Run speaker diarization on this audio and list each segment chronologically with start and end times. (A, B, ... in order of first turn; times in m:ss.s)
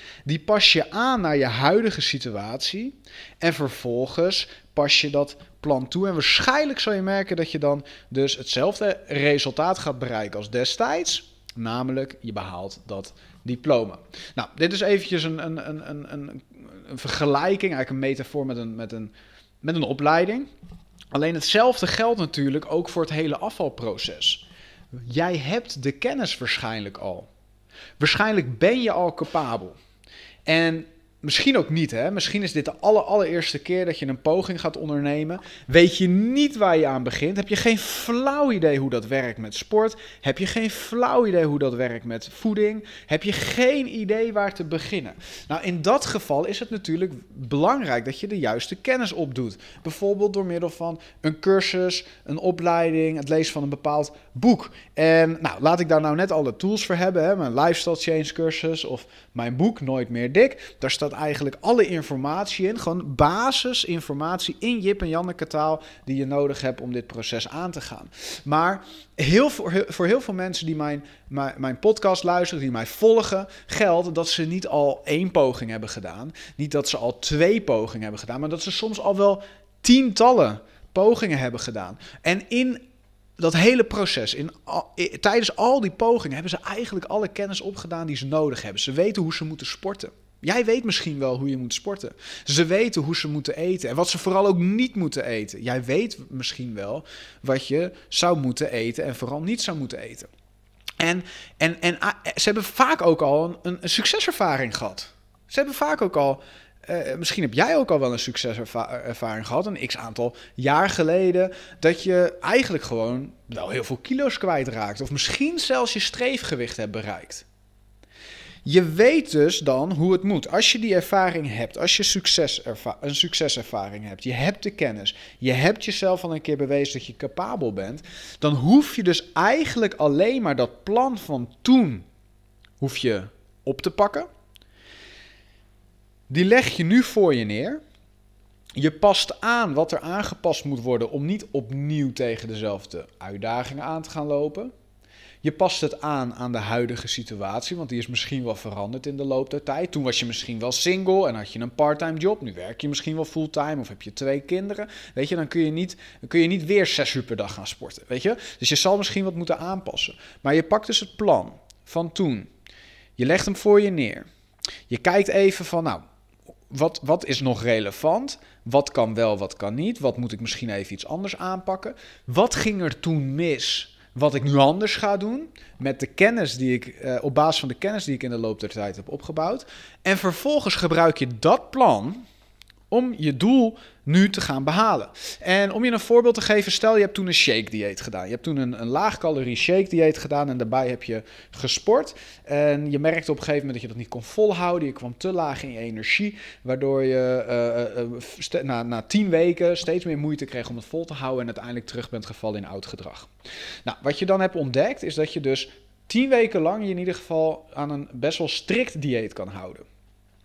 0:00.3-0:20.5 A
0:21.1-0:27.3 A
0:28.0-0:29.8 A
0:30.5-1:22.8 A
1:23.4-1:40.3 A
1:41.0-1:57.5 A
1:58.6-2:12.1 A
2:12.8-2:14.3 A
2:16.3-2:17.8 A
2:18.8-2:24.7 A
2:25.4-2:42.5 A
2:43.2-2:44.3 A
2:44.9-2:46.0 A
2:46.7-3:02.2 A
3:02.9-3:23.3 A
3:23.8-3:29.8 A